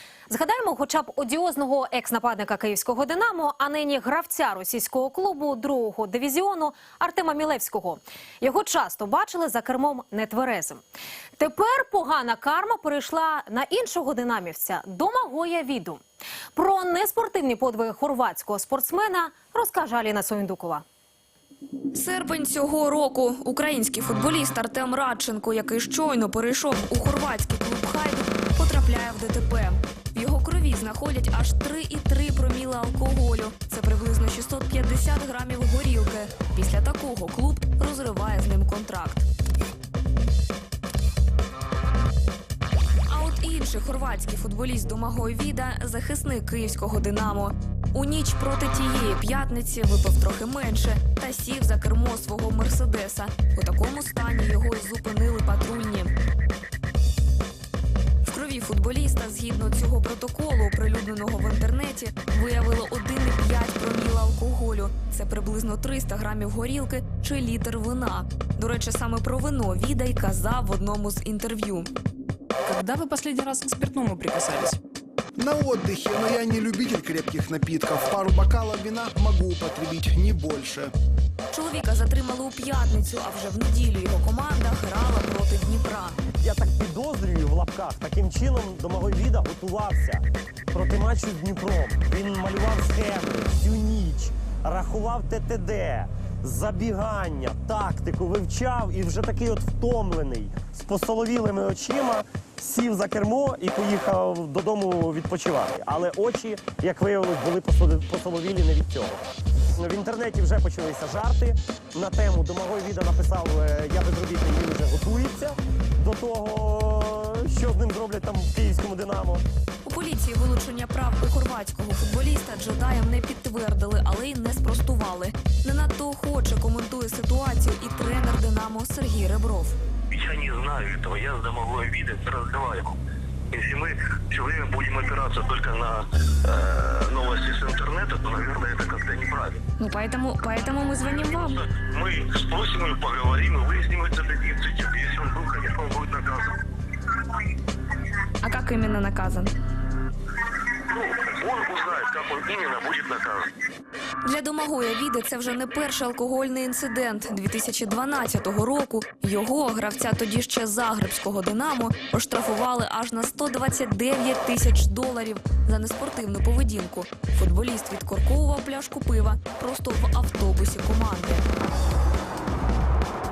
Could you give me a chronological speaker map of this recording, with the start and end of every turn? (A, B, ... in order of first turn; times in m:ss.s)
0:00.3-0:10.8 A
0:11.4-0:16.0 A
0:16.6-0:20.8 A
0:21.9-0:39.2 B
0:43.1-0:56.1 B
0:58.2-1:11.9 B
1:12.7-1:14.8 C
1:15.4-1:20.9 D
1:21.5-1:26.2 B
1:26.4-1:49.2 E
1:49.8-1:59.4 E
1:59.8-2:09.8 B
2:10.1-2:13.0 F
2:13.5-2:19.6 F
2:19.8-2:21.6 B
2:21.3-2:26.6 F
2:28.4-2:29.5 B
2:30.9-2:33.5 F
2:34.2-2:51.4 B